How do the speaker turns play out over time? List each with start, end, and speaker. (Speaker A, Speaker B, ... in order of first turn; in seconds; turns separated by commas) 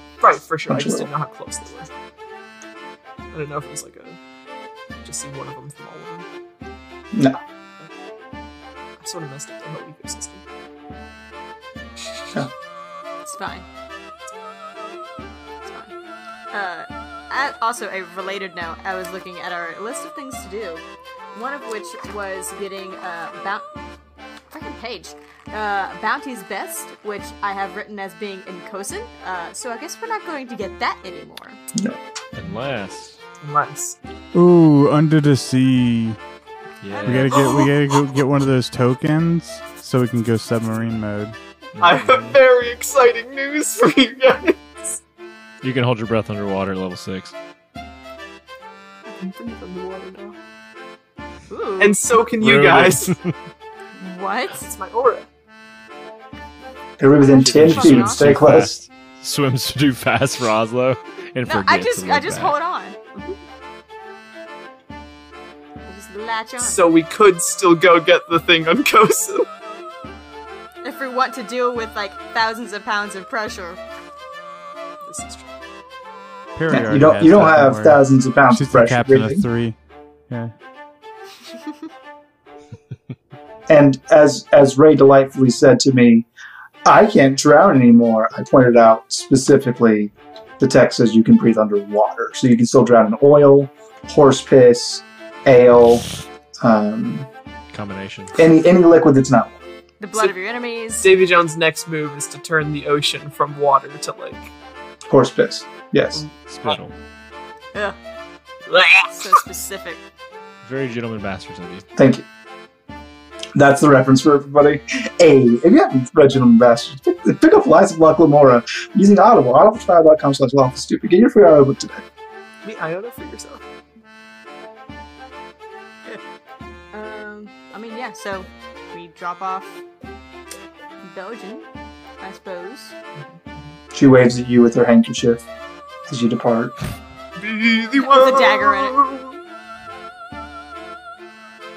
Speaker A: 0.2-1.9, Speaker B: 0.7-1.1, Speaker A: 3.3-4.2, Speaker A: 5.0-6.3, Speaker B: 7.1-7.4, Speaker A: 9.0-10.4, Speaker C: 13.2-13.7, Speaker C: 15.6-15.9, Speaker C: 16.5-23.6, Speaker C: 24.5-31.6, Speaker D: 32.3-33.2, Speaker A: 33.4-34.0, Speaker E: 34.3-36.2, Speaker D: 36.8-37.4, Speaker E: 37.0-41.4, Speaker A: 37.2-37.7, Speaker D: 41.7-42.4, Speaker A: 41.8-45.0, Speaker D: 45.6-47.3, Speaker A: 49.1-50.4, Speaker C: 51.5-52.0, Speaker A: 51.8-53.1, Speaker D: 52.4-53.3, Speaker C: 54.0-54.7, Speaker A: 54.6-55.3, Speaker B: 57.0-58.8, Speaker D: 57.4-62.5, Speaker C: 57.6-58.4, Speaker C: 61.5-63.0, Speaker C: 65.9-66.8, Speaker A: 66.6-69.5, Speaker C: 70.8-73.8, Speaker A: 75.0-75.5, Speaker E: 76.5-79.8, Speaker B: 76.7-79.4, Speaker E: 80.3-80.5, Speaker B: 83.7-86.3, Speaker B: 86.8-96.0, Speaker B: 96.6-97.3, Speaker D: 97.7-98.4, Speaker B: 98.3-99.6, Speaker C: 100.0-101.1, Speaker A: 101.0-104.5, Speaker B: 105.1-106.2, Speaker A: 106.1-106.8, Speaker D: 106.5-106.9, Speaker A: 108.7-109.4, Speaker C: 109.1-110.0, Speaker D: 110.6-111.8, Speaker B: 112.0-112.2, Speaker B: 113.5-122.0, Speaker A: 122.6-123.6, Speaker C: 126.9-129.8, Speaker C: 131.1-131.7, Speaker C: 132.2-132.9, Speaker B: 133.9-135.4, Speaker B: 136.1-136.7, Speaker A: 137.4-139.3, Speaker C: 138.0-139.0